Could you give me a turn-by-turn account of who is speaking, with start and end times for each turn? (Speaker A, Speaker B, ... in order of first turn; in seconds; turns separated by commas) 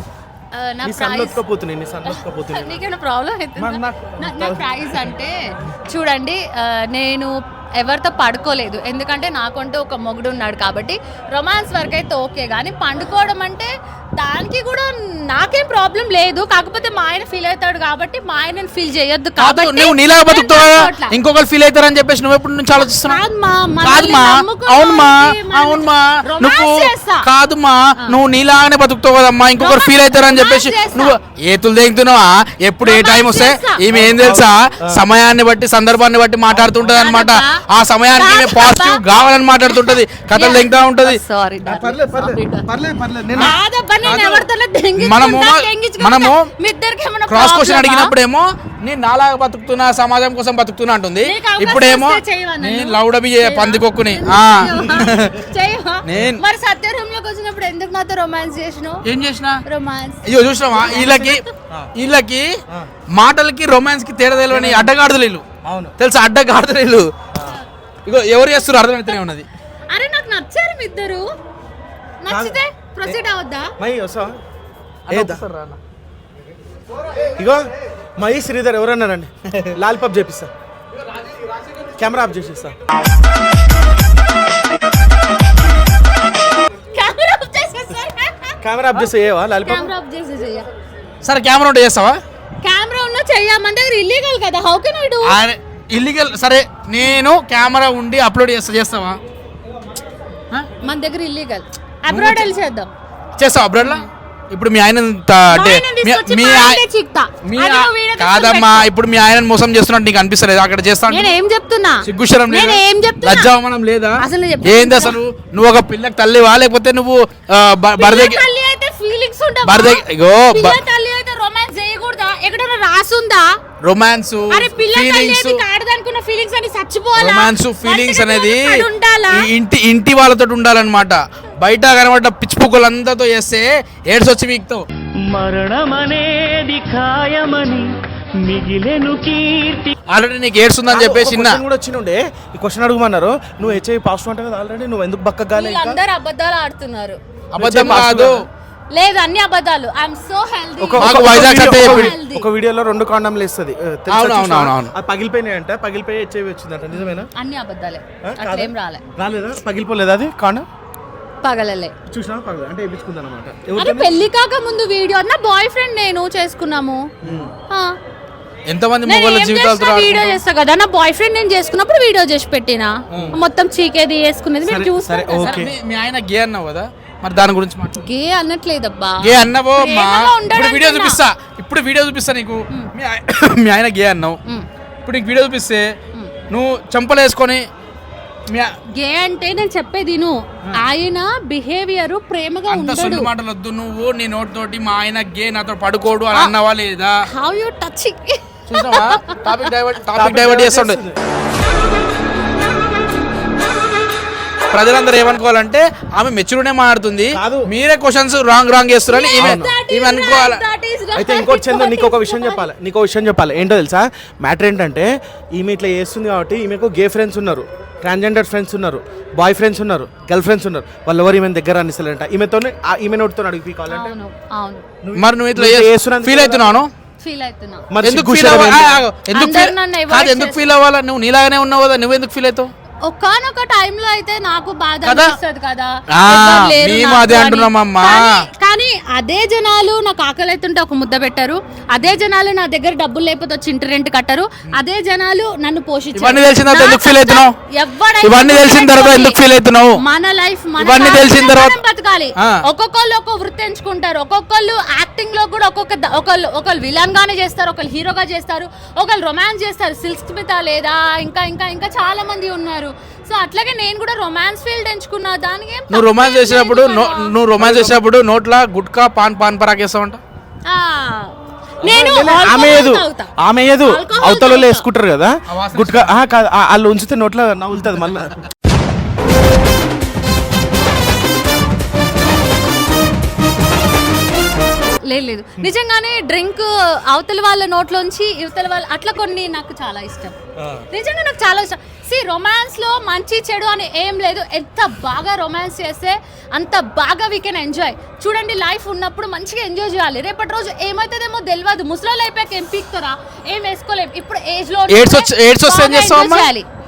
Speaker A: 0.5-1.4, Speaker B: 0.8-2.8, Speaker A: 2.0-21.2, Speaker B: 3.6-4.8, Speaker C: 19.4-23.2, Speaker A: 22.8-27.3, Speaker C: 23.8-41.2, Speaker A: 29.6-31.2, Speaker A: 32.8-33.8, Speaker B: 33.9-35.0, Speaker B: 36.5-36.9, Speaker A: 36.9-42.7, Speaker B: 41.6-43.6, Speaker A: 43.3-48.1, Speaker C: 44.0-44.5, Speaker C: 45.0-46.5, Speaker C: 47.3-55.4, Speaker A: 51.2-59.0, Speaker C: 56.0-56.4, Speaker C: 59.0-59.6, Speaker A: 59.7-61.5, Speaker C: 60.2-61.4, Speaker C: 61.9-62.6, Speaker C: 63.1-65.4, Speaker B: 64.5-64.9, Speaker B: 65.6-65.9, Speaker C: 66.0-67.1, Speaker C: 68.1-69.4, Speaker A: 69.9-71.2, Speaker A: 72.2-73.7, Speaker B: 72.3-73.1, Speaker B: 73.8-74.3, Speaker C: 75.1-75.8, Speaker B: 75.1-75.4, Speaker B: 77.4-77.6, Speaker B: 78.2-80.5, Speaker B: 82.0-82.7, Speaker A: 86.9-89.1, Speaker B: 88.6-89.9, Speaker A: 89.7-90.7, Speaker C: 91.2-92.2, Speaker A: 92.6-95.4, Speaker C: 95.2-99.2, Speaker A: 100.8-102.9, Speaker C: 102.1-102.5, Speaker C: 103.4-106.8, Speaker A: 103.8-104.1, Speaker A: 105.5-108.9, Speaker C: 107.4-111.3, Speaker A: 111.1-113.5, Speaker C: 112.0-118.4, Speaker A: 114.2-115.2, Speaker A: 118.0-123.5, Speaker C: 119.7-120.8, Speaker C: 123.8-125.6, Speaker A: 124.5-129.5, Speaker C: 127.2-134.8, Speaker D: 135.2-137.9, Speaker D: 138.4-139.9, Speaker C: 140.1-141.6, Speaker B: 140.9-146.0, Speaker A: 145.6-147.2, Speaker C: 147.5-148.4, Speaker B: 147.6-148.5, Speaker A: 148.9-152.5, Speaker B: 150.8-157.3, Speaker C: 151.0-152.2, Speaker C: 154.1-154.9, Speaker A: 156.9-159.0, Speaker B: 158.2-160.7, Speaker A: 161.4-161.9, Speaker B: 162.1-164.2, Speaker A: 163.8-167.1, Speaker C: 167.2-167.5, Speaker B: 167.2-167.5, Speaker A: 167.7-167.9, Speaker C: 168.7-170.4, Speaker A: 169.1-175.6, Speaker B: 174.7-175.7, Speaker C: 175.4-178.0, Speaker A: 178.0-181.2, Speaker C: 179.2-184.4, Speaker C: 185.0-185.9, Speaker C: 186.5-187.6, Speaker A: 188.9-193.3, Speaker C: 192.7-197.1, Speaker A: 197.3-199.7, Speaker C: 198.7-201.0, Speaker B: 200.2-201.2, Speaker C: 204.7-210.6, Speaker B: 207.3-207.7, Speaker A: 209.1-212.7, Speaker B: 209.4-209.8, Speaker B: 211.2-224.2, Speaker A: 223.9-224.8, Speaker B: 225.0-226.8, Speaker C: 225.2-226.9, Speaker A: 227.2-227.8, Speaker B: 227.9-229.0, Speaker C: 228.0-232.7, Speaker A: 229.3-230.7, Speaker A: 233.0-249.4, Speaker C: 235.0-235.3, Speaker C: 236.1-238.3, Speaker C: 246.2-247.5, Speaker C: 248.2-250.0, Speaker A: 250.0-267.3, Speaker C: 250.8-251.8, Speaker C: 265.9-270.2, Speaker B: 267.6-268.0, Speaker A: 270.7-273.3, Speaker B: 271.8-278.4, Speaker A: 273.8-274.9, Speaker C: 275.5-276.2, Speaker A: 285.1-290.4, Speaker B: 290.6-290.9, Speaker A: 290.9-306.7, Speaker C: 304.9-306.5